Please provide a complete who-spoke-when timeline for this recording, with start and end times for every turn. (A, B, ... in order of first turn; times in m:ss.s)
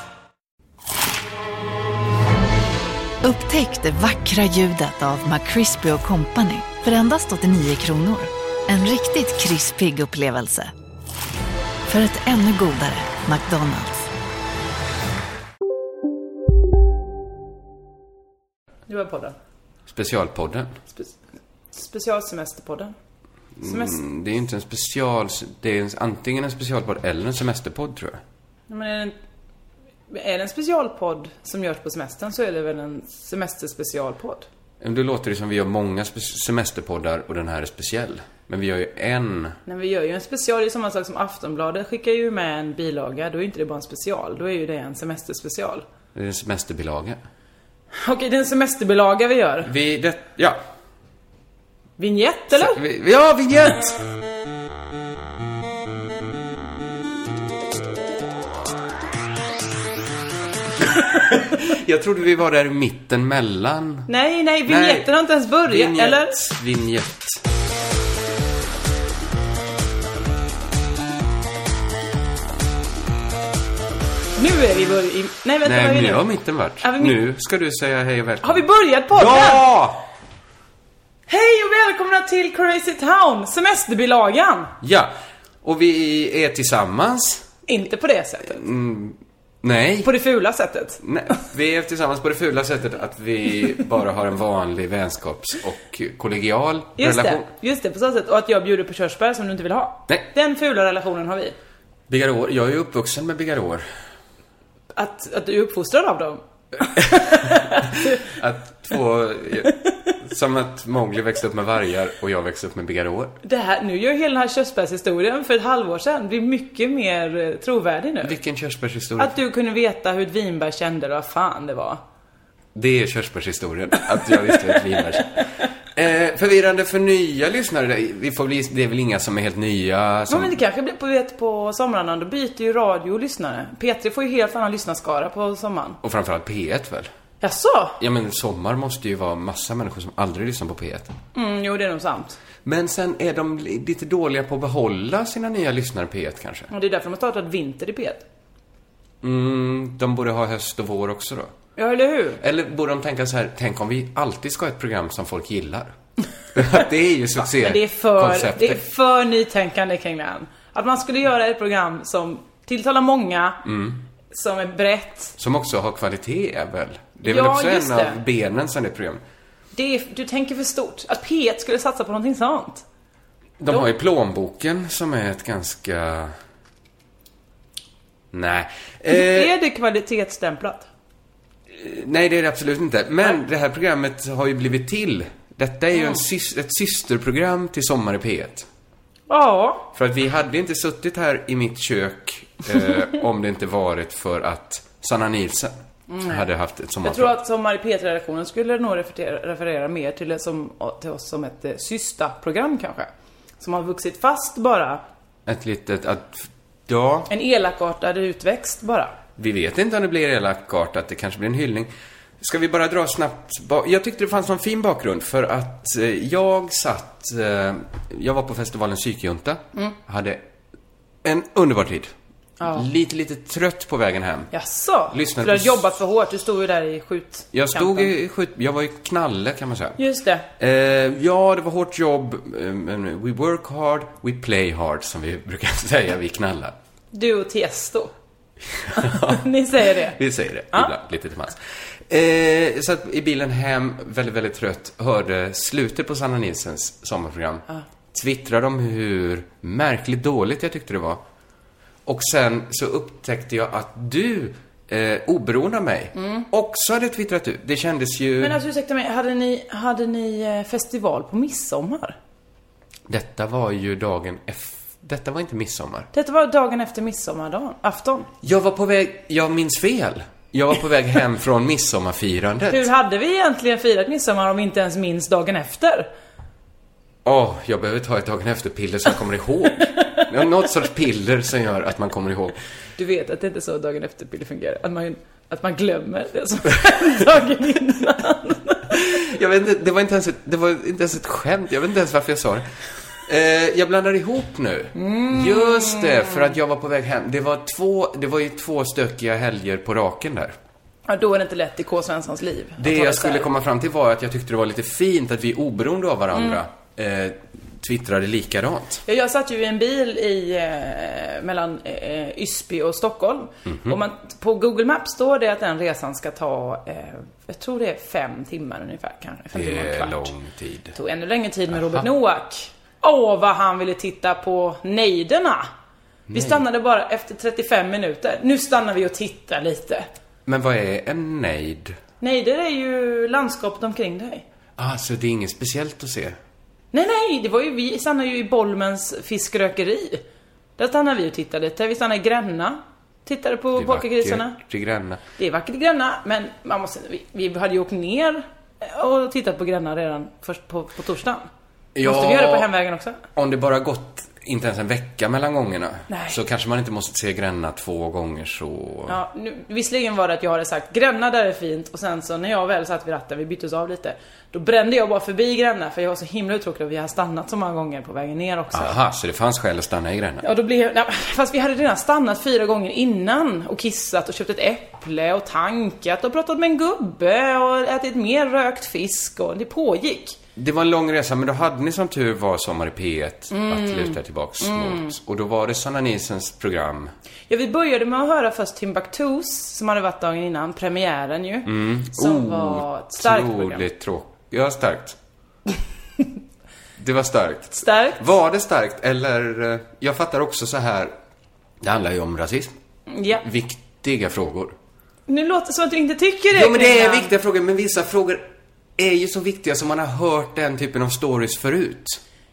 0:03.2-0:10.7 A
0:11.9-0:14.0 A
0:18.9-0:19.4 B
0:19.9-0:20.8 C
0:21.7-0:22.9 B
0:23.6-0:28.2 C
0:23.6-0:24.0 B
0:28.7-0:29.2 B
0:30.1-0:34.5 B
0:34.8-0:39.6 C
0:39.7-0:45.8 B
0:46.2-0:47.2 C
0:47.9-0:49.7 B
0:49.6-0:50.6 C
0:52.0-0:52.8 B
0:52.5-0:54.0 C
1:01.3-1:04.1 C
1:04.1-1:06.3 B
1:04.7-1:05.1 C
1:05.6-1:07.4 C
1:14.4-1:16.2 B
1:15.6-1:20.0 C
1:16.8-1:17.2 B
1:18.4-1:19.6 B
1:21.3-1:24.7 B
1:24.8-1:25.1 C
1:25.6-1:27.5 C
1:27.7-1:28.6 B
1:28.4-1:30.1 C
1:30.0-1:31.0 B
1:31.0-1:37.5 C
1:37.0-1:41.6 B
1:42.1-1:43.8 C
1:45.0-1:47.9 B
1:48.2-1:53.4 C
1:53.4-1:58.4 B
1:58.2-1:59.4 C
1:59.2-2:02.0 B
2:02.8-2:10.6 C
2:10.3-2:16.0 B
2:16.0-2:17.1 C
2:17.4-2:18.0 B
2:18.0-2:21.2 C
2:21.3-2:22.4 B
2:22.6-2:26.7 C
2:26.7-2:28.2 B
2:29.2-2:31.5 C
2:31.8-2:32.4 B
2:32.4-2:35.9 C
2:36.5-2:38.8 C
2:37.4-2:43.6 B
2:43.6-2:44.0 C
2:44.3-2:45.4 B
2:45.4-2:49.2 C
2:47.2-2:48.2 B
2:49.7-2:52.8 B
2:53.6-2:56.3 C
2:58.3-2:59.5 C
2:59.1-3:00.9 B
3:01.7-3:08.7 C
3:09.3-3:09.9 B
3:10.0-3:17.4 C
3:16.1-3:16.4 B
3:17.0-3:23.1 B
3:23.6-3:25.0 B
3:25.5-3:27.3 C
3:27.3-3:29.2 B
3:29.4-3:40.4 C
3:41.2-3:42.1 C
3:42.6-3:42.9 B
3:42.7-3:44.5 C
3:44.5-3:48.1 B
3:45.1-3:45.9 C
3:47.5-3:50.0 C
3:50.0-3:50.4 B
3:50.6-3:56.8 C
3:57.1-3:58.1 B
3:58.8-4:01.6 C
3:59.2-4:00.2 B
4:02.1-4:11.2 C
4:12.1-4:18.6 C
4:16.2-4:16.4 B
4:18.4-4:22.2 B
4:23.1-4:26.1 C
4:26.1-4:28.3 B
4:28.4-4:32.9 C
4:32.7-4:36.1 B
4:37.2-4:42.6 C
4:43.0-4:48.9 B
4:48.9-4:52.7 C
4:53.2-5:00.6 C
4:55.0-4:56.4 B
5:01.1-5:03.5 B
5:02.8-5:09.0 C
5:06.4-5:06.6 B
5:09.1-5:20.3 B
5:13.7-5:14.0 C
5:19.5-5:21.0 C
5:21.0-5:25.7 B
5:26.3-5:26.6 C
5:26.3-5:30.1 B
5:30.5-5:32.0 C
5:32.2-5:34.4 B
5:34.8-5:36.4 C
5:36.9-5:40.2 B
5:40.8-5:44.6 B
5:43.8-5:45.2 C
5:45.4-5:51.5 B
5:52.0-5:52.7 C
5:52.0-5:53.2 B
5:53.4-5:59.2 C
5:56.1-5:56.4 B
5:59.1-6:09.0 B
6:08.7-6:10.5 C
6:10.4-6:20.4 B
6:20.6-6:27.1 C
6:23.5-6:25.1 B
6:27.5-6:33.9 B
6:31.6-6:35.2 C
6:37.0-6:41.1 C
6:37.8-6:38.2 B
6:41.8-6:42.7 C
6:43.1-6:43.4 B
6:43.3-6:44.8 C
6:45.3-6:47.3 B
6:46.5-6:52.2 C